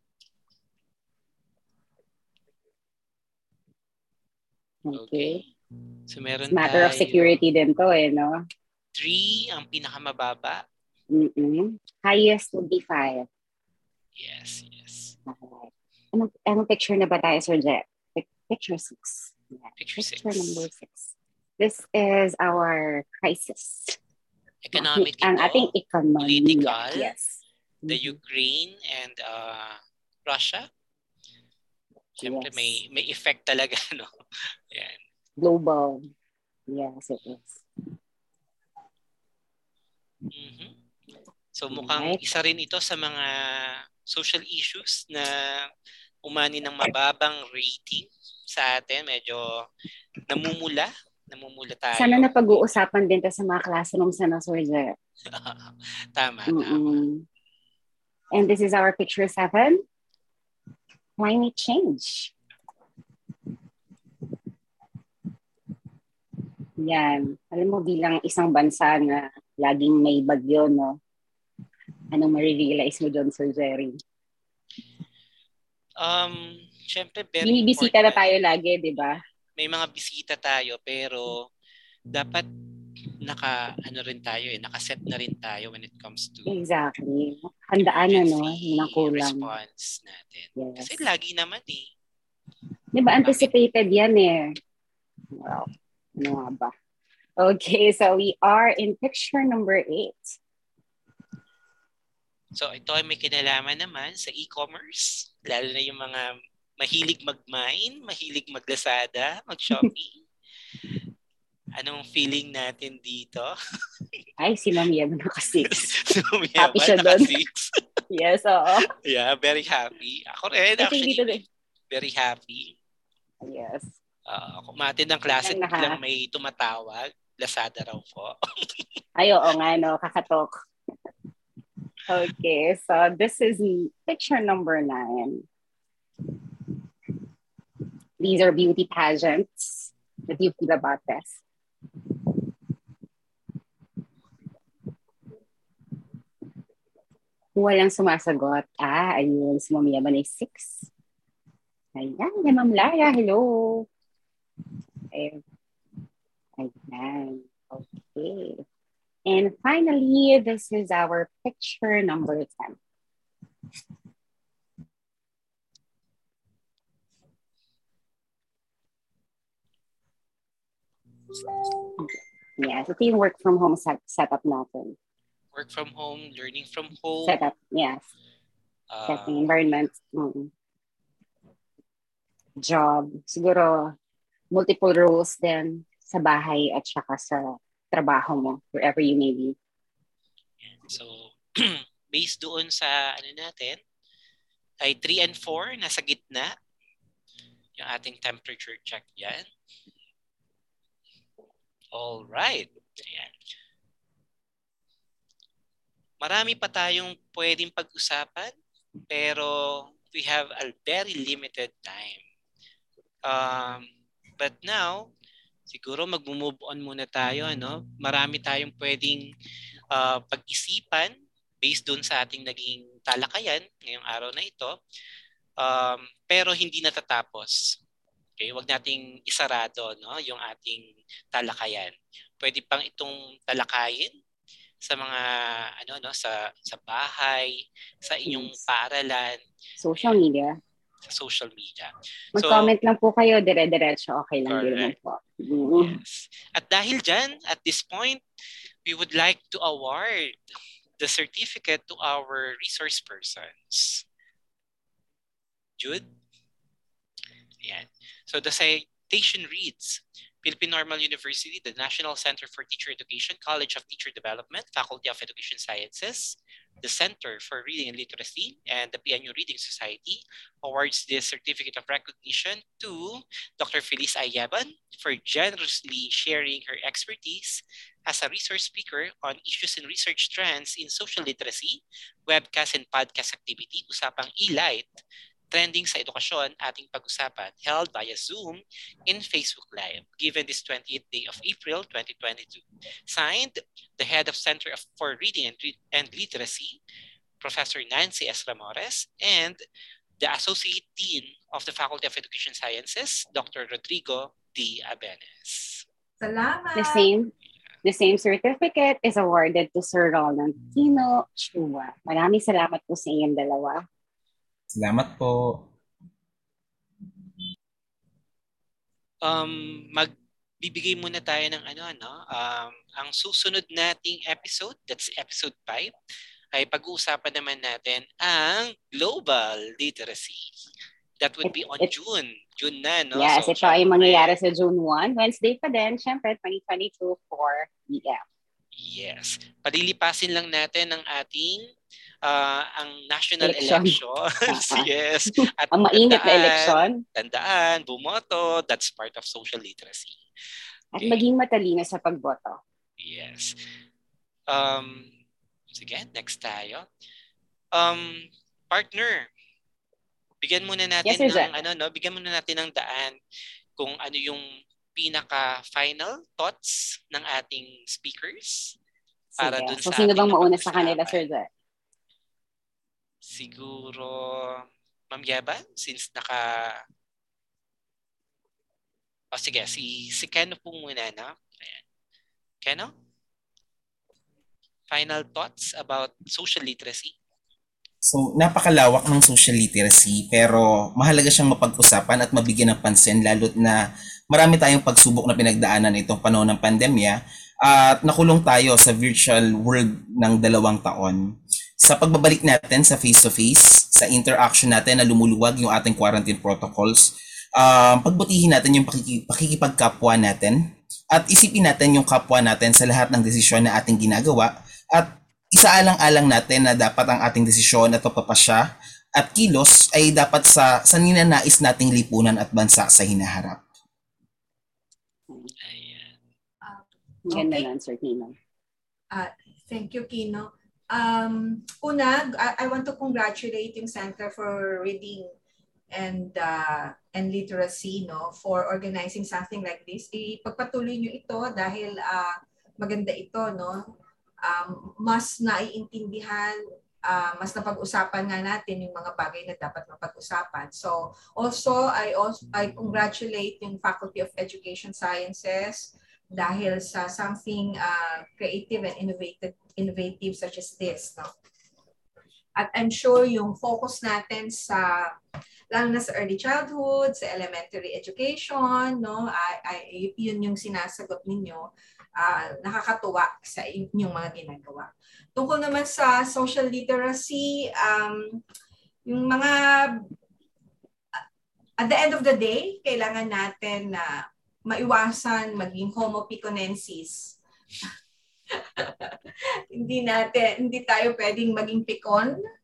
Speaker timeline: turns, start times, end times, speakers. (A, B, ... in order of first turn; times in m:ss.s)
0:04.8-0:05.4 A
0:04.9-0:05.4 B
0:06.1-0:07.4 B
0:06.5-0:08.4 A
0:08.9-0:10.6 B
0:11.1-0:13.3 A
0:14.2-0:15.2 B
0:15.3-0:24.0 A
0:19.8-0:20.7 B
0:24.6-0:27.1 B
0:24.7-0:28.2 A
0:27.9-0:30.6 B
0:32.2-0:34.1 B
0:32.2-0:32.8 A
0:34.7-0:35.0 B
0:35.4-0:36.0 A
0:36.7-0:37.6 A
0:40.3-0:40.7 B
0:41.5-0:45.4 B
0:41.7-0:42.2 A
0:46.2-0:49.6 B
0:50.3-0:52.8 B
0:51.9-0:54.9 A
0:55.3-0:57.0 B
0:56.5-0:57.2 A
0:58.3-0:59.8 A
1:01.2-1:02.3 A
1:06.8-1:11.0 A
1:12.1-1:14.0 A
1:16.0-1:18.3 B
1:17.4-1:19.2 A
1:19.6-1:21.4 B
1:22.1-1:22.4 B
1:23.3-1:26.5 B
1:26.4-1:29.5 A
1:27.8-1:31.9 B
1:30.6-1:31.0 A
1:32.9-1:34.5 A
1:33.2-1:33.5 B
1:35.3-1:36.7 A
1:37.4-1:40.4 A
1:42.5-1:50.2 B
1:51.8-1:53.5 B
1:54.4-1:56.0 A
1:55.6-1:57.7 B
1:56.6-1:57.3 A
1:58.1-1:58.9 A
1:59.1-2:01.4 B
2:00.8-2:01.4 A
2:01.9-2:02.7 B
2:03.4-2:03.9 A
2:04.3-2:08.3 B
2:05.3-2:06.0 A
2:09.2-2:10.5 A
2:12.1-2:15.4 A
2:18.2-2:21.4 A
2:27.5-2:30.9 A
2:31.9-2:33.9 A
2:35.1-2:35.4 A
2:36.6-2:38.6 A
2:39.3-2:42.8 A
2:52.0-2:55.0 A
2:55.5-2:57.4 B
2:57.2-2:58.0 A
2:58.9-2:59.6 B
2:59.1-3:00.5 A
3:02.6-3:04.0 A
3:04.5-3:09.5 A
3:10.8-3:13.8 B
3:14.8-3:16.5 B
3:17.8-3:19.4 B
3:21.9-3:23.3 B
3:26.2-3:28.5 B
3:29.1-3:32.2 B
3:33.2-3:33.9 B
3:34.4-3:35.0 B
3:35.7-3:39.3 B
3:39.9-3:44.7 B
3:45.6-3:47.6 B
3:48.4-3:54.1 B
3:54.8-3:59.4 B
3:58.2-3:58.6 A
3:59.8-4:00.5 A
4:01.1-4:02.7 B
4:02.3-4:06.0 A
4:04.5-4:04.9 B
4:05.8-4:08.2 B
4:08.8-4:10.3 B
4:11.0-4:14.0 B
4:15.8-4:16.0 B
4:17.6-4:45.0 B
4:45.5-4:56.8 B
4:57.4-4:59.6 B
5:00.2-5:05.8 B
5:06.2-5:07.0 C
5:06.8-5:07.3 A
5:07.8-5:13.8 A
5:14.7-5:15.6 D
5:19.2-5:20.1 B
5:20.6-5:25.9 B
5:26.5-5:30.6 B
5:31.2-5:34.4 B
5:31.4-5:31.9 A
5:33.1-5:38.2 A
5:38.8-5:41.6 B
5:42.2-5:50.2 B
5:43.4-5:44.0 A
5:44.5-5:47.0 A
5:50.9-5:52.6 A
5:53.0-5:53.5 B
5:54.5-5:55.1 B
5:55.7-5:56.8 B
5:57.8-5:59.3 B
6:00.4-6:03.2 B
6:01.0-6:01.5 A
6:03.8-6:04.4 B
6:05.0-6:08.7 B
6:09.3-6:11.5 A
6:09.4-6:11.2 B
6:13.3-6:16.8 B
6:19.3-6:21.8 B
6:22.6-6:22.9 B
6:24.9-6:27.1 B
6:28.0-6:41.3 D
6:41.8-6:58.6 D
6:59.2-7:03.6 D
7:05.6-7:06.2 B
7:06.6-7:07.7 C
7:07.3-7:08.3 A
7:09.1-7:15.3 C
7:15.9-7:23.8 C
7:24.4-7:41.3 C
7:42.6-7:45.1 C
7:45.7-7:51.7 C
7:52.2-7:58.2 C
7:59.1-7:59.9 C
8:01.8-8:07.3 C
8:08.8-8:09.1 C
8:09.7-8:12.3 C